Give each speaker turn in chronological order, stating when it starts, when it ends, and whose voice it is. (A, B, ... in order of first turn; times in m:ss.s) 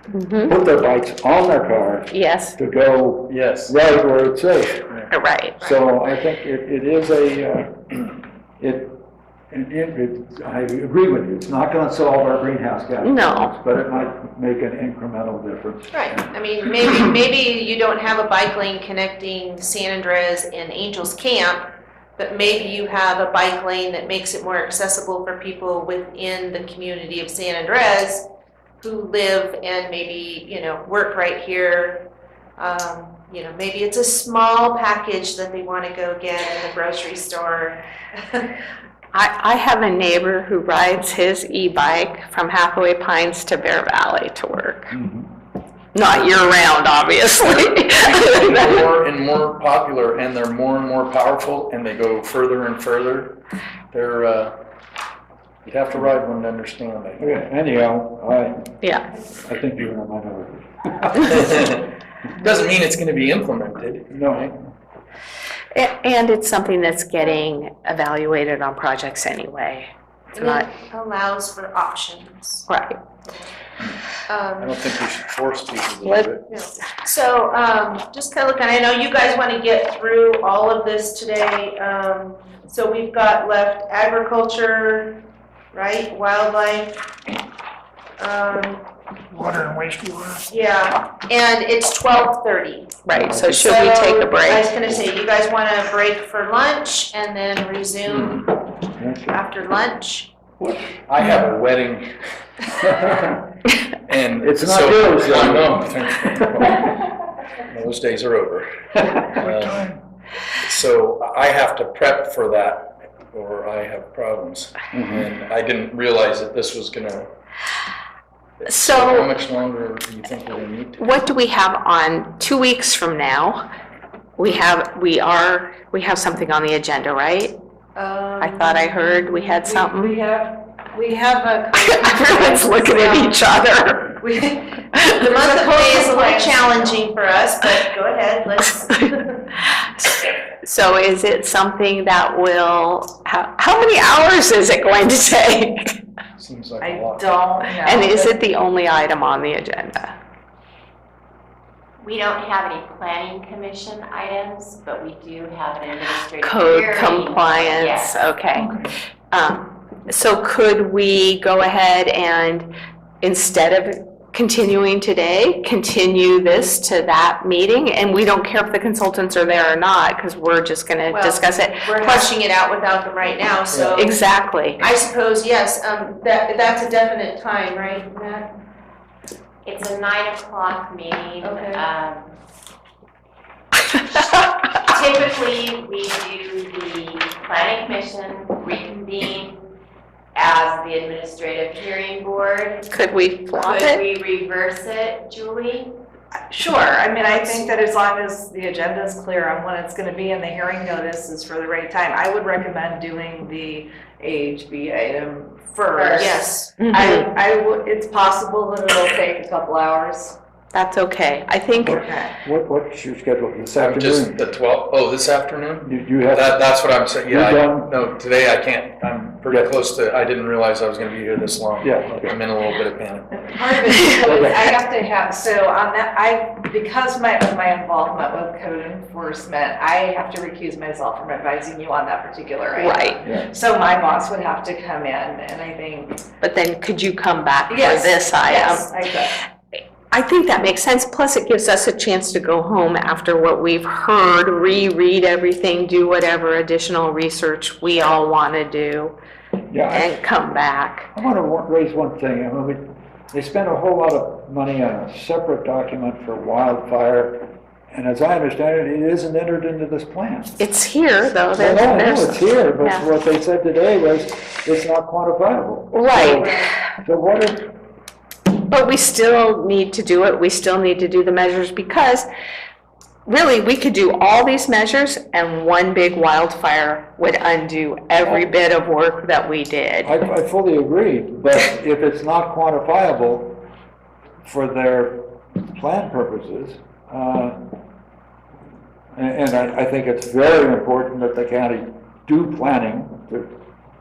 0:00.1-0:00.6 A
0:00.5-0:04.9 B
0:02.1-0:02.6 A
0:03.3-0:03.8 C
0:05.1-0:05.6 A
0:05.6-0:08.0 B
0:08.6-0:09.0 B
0:09.5-0:16.3 B
0:13.0-0:13.5 A
0:15.9-0:21.6 D
0:22.2-0:28.2 D
0:28.8-0:32.0 D
0:32.6-0:38.5 D
0:39.1-0:45.0 A
0:44.9-0:45.3 B
0:45.9-0:48.9 A
0:47.4-0:53.4 C
0:53.9-0:54.6 C
0:55.6-0:57.3 C
0:57.2-0:58.7 B
0:59.4-1:01.7 B
1:01.3-1:01.8 C
1:02.4-1:04.5 C
1:04.1-1:04.5 B
1:05.7-1:10.7 A
1:10.3-1:12.7 D
1:12.7-1:13.0 A
1:14.3-1:14.8 D
1:14.6-1:16.4 C
1:16.0-1:16.3 A
1:16.5-1:25.2 D
1:25.7-1:27.0 D
1:28.2-1:28.8 D
1:29.3-1:30.4 B
1:30.5-1:33.0 D
1:33.0-1:34.7 A
1:33.1-1:33.7 B
1:33.5-1:38.5 D
1:38.0-1:38.4 C
1:39.0-1:39.4 B
1:39.3-1:40.3 D
1:40.6-1:41.5 B
1:41.1-1:42.2 C
1:42.9-1:43.4 B
1:44.1-1:46.8 C
1:44.4-1:47.0 B
1:47.7-1:48.7 C
1:49.0-1:50.0 B
1:49.4-1:49.9 C
1:50.6-1:57.3 C
1:54.9-1:55.2 B
1:58.7-2:01.2 C
1:58.7-1:59.4 A
2:01.0-2:03.6 A
2:04.4-2:07.6 A
2:08.0-2:09.0 D
2:08.4-2:10.2 A
2:09.6-2:13.0 E
2:11.7-2:14.2 A
2:14.2-2:19.4 D
2:14.9-2:15.4 A
2:15.5-2:16.9 E
2:19.7-2:26.0 A
2:26.4-2:27.3 C
2:26.8-2:28.4 E
2:27.8-2:30.2 A
2:32.0-2:38.2 F
2:36.4-2:38.8 A
2:38.5-2:38.9 B
2:39.3-2:42.7 A
2:43.2-2:52.3 A
2:51.1-2:54.2 D
2:53.7-2:54.0 C
2:54.0-2:54.9 A
2:54.8-2:58.5 D
2:59.6-3:02.3 F
3:01.4-3:01.8 D
3:04.8-3:09.6 F
3:10.3-3:12.9 F
3:12.9-3:14.0 A
3:13.5-3:15.9 F
3:16.5-3:30.4 E
3:17.3-3:17.8 D
3:25.9-3:26.8 D
3:26.8-3:27.3 A
3:30.7-3:32.1 A
3:31.8-3:34.4 B
3:33.8-3:43.4 C
3:35.8-3:36.6 B
3:37.3-3:37.9 B
3:41.8-3:42.3 B
3:43.3-3:56.2 E
3:43.9-3:44.3 A
3:44.2-3:44.6 B
3:52.8-3:53.2 A
3:53.2-3:53.5 B
3:56.4-3:58.9 A
3:57.7-3:59.3 E
4:00.1-4:09.2 A
4:09.7-4:10.2 B
4:09.9-4:11.1 A
4:11.1-4:20.6 B
4:20.6-4:23.1 A
4:21.6-4:27.7 B
4:25.9-4:26.6 A
4:26.4-4:26.7 D
4:28.7-4:32.3 A
4:33.3-4:40.1 A
4:40.0-4:43.6 B
4:44.4-4:47.6 B
4:49.2-4:53.5 B